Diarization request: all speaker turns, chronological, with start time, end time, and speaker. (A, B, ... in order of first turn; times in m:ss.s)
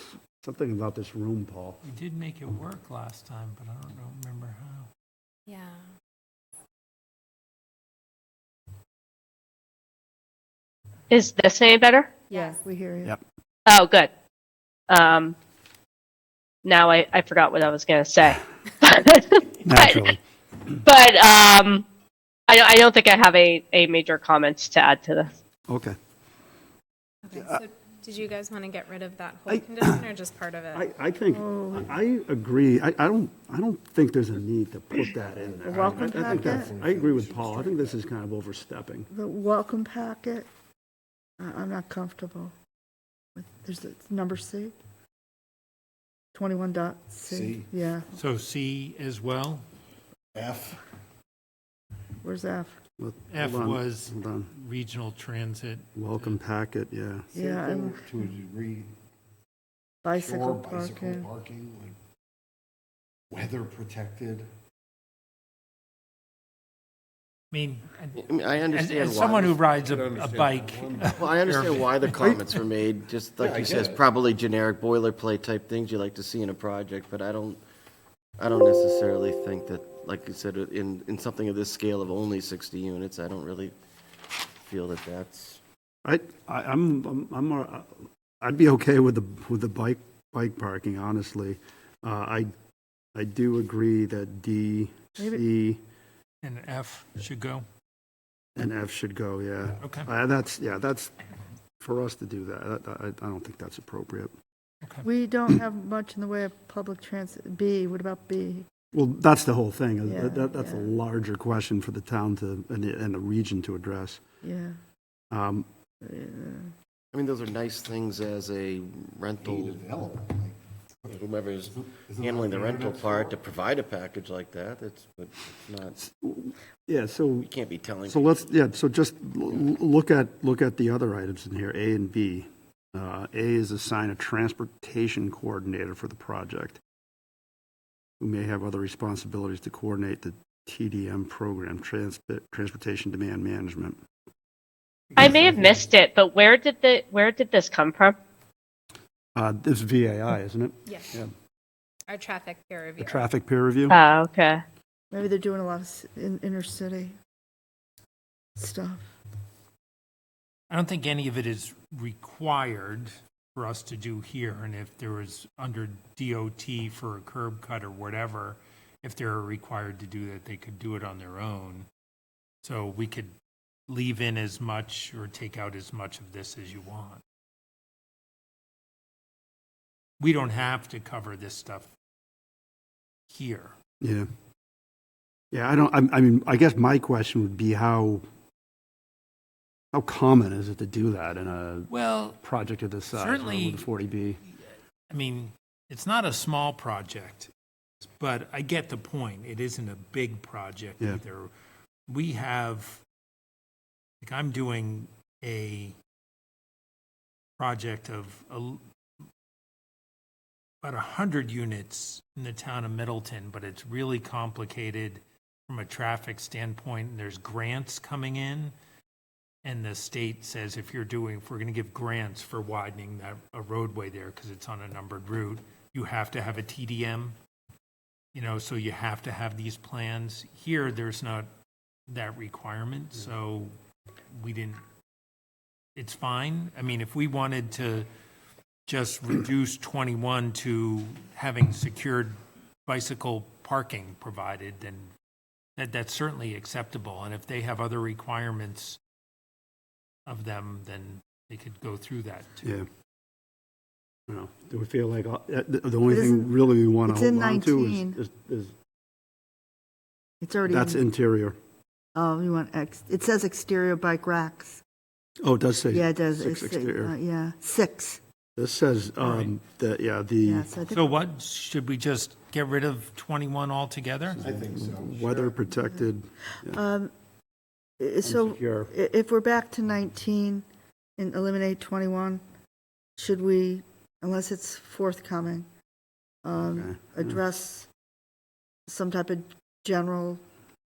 0:00.4-0:01.8 A
0:01.8-0:04.9 B
0:05.5-0:05.8 C
0:11.1-0:12.2 D
0:12.3-0:12.6 C
0:12.3-0:13.2 E
0:13.7-0:14.1 D
0:14.9-0:15.4 D
0:16.6-0:20.1 D
0:19.6-0:20.2 A
0:20.8-0:21.8 D
0:22.5-0:25.3 D
0:25.7-0:26.0 A
0:27.2-0:30.9 C
0:27.4-0:27.6 A
0:29.5-0:30.1 A
0:30.7-0:39.1 A
0:31.3-0:31.9 E
0:35.1-0:38.0 F
0:35.7-0:36.7 E
0:39.1-0:40.5 E
0:41.4-0:42.5 E
0:43.3-0:44.7 E
0:46.3-0:48.1 E
0:47.3-0:47.7 F
0:48.1-0:49.6 B
0:50.3-0:50.8 F
0:52.2-0:52.8 E
0:53.0-0:54.5 A
0:53.3-0:56.4 B
0:56.0-0:57.3 A
0:57.3-0:58.0 E
0:57.3-0:58.9 F
1:00.0-1:01.3 E
1:00.1-1:02.0 F
1:03.3-1:04.5 F
1:07.5-1:12.4 B
1:08.2-1:09.7 G
1:09.7-1:11.2 F
1:11.0-1:17.6 G
1:13.4-1:14.0 F
1:18.4-1:23.7 G
1:24.6-1:25.6 G
1:26.0-1:32.5 A
1:33.1-1:35.8 A
1:35.2-1:35.4 E
1:36.4-1:37.6 B
1:38.6-1:41.1 A
1:39.8-1:40.1 B
1:41.8-1:44.3 A
1:45.0-1:48.7 E
1:48.9-1:54.2 A
1:50.0-1:51.0 E
1:54.4-1:54.8 E
1:55.3-1:55.6 A
1:56.0-1:56.7 E
1:57.1-1:59.9 G
1:59.4-2:03.4 F
2:01.1-2:06.0 G
2:06.0-2:07.5 A
2:07.4-2:08.5 G
2:08.0-2:16.8 A
2:18.2-2:24.0 A
2:25.2-2:28.2 D
2:25.3-2:25.7 B
2:29.4-2:31.3 A
2:30.8-2:31.2 C
2:32.1-2:33.3 C
2:33.0-2:34.0 A
2:33.9-2:34.6 D
2:35.1-2:37.1 E
2:38.6-2:39.1 E
2:40.7-2:51.9 B
2:52.6-2:53.3 B
2:53.9-2:57.2 B
3:00.2-3:01.9 B
3:03.3-3:03.7 B
3:04.0-3:04.3 A
3:05.5-3:08.2 A
3:09.9-3:14.4 A
3:11.9-3:12.4 B
3:13.1-3:13.9 B
3:15.1-3:17.5 B
3:18.0-3:21.5 B
3:22.1-3:23.0 B
3:24.2-3:25.9 B
3:27.6-3:28.8 B
3:30.8-3:38.7 B
3:39.6-3:47.4 B
3:48.3-3:51.5 B
3:52.1-3:53.7 B
3:54.3-3:54.8 B
3:56.0-3:58.1 B
3:58.9-4:02.3 B
4:02.8-4:05.1 B
4:05.8-4:09.0 B
4:10.2-4:12.6 B
4:14.3-4:18.7 A
4:16.1-4:16.5 E
4:17.0-4:18.2 E
4:20.4-4:21.0 E
4:20.7-4:21.6 A
4:22.1-4:24.8 E
4:25.4-4:27.2 A
4:25.9-4:28.2 E
4:28.6-4:30.7 A
4:29.2-4:29.5 B
4:30.4-4:31.1 E
4:30.9-4:34.4 B
4:34.4-4:36.8 A
4:34.4-4:35.6 F
4:35.7-4:36.0 E
4:36.6-4:37.1 E
4:38.0-4:40.6 E
4:38.2-4:38.9 A
4:41.2-4:42.4 E
4:43.2-4:45.6 E
4:46.4-4:47.9 E
4:46.7-4:47.4 A
4:48.9-4:50.4 E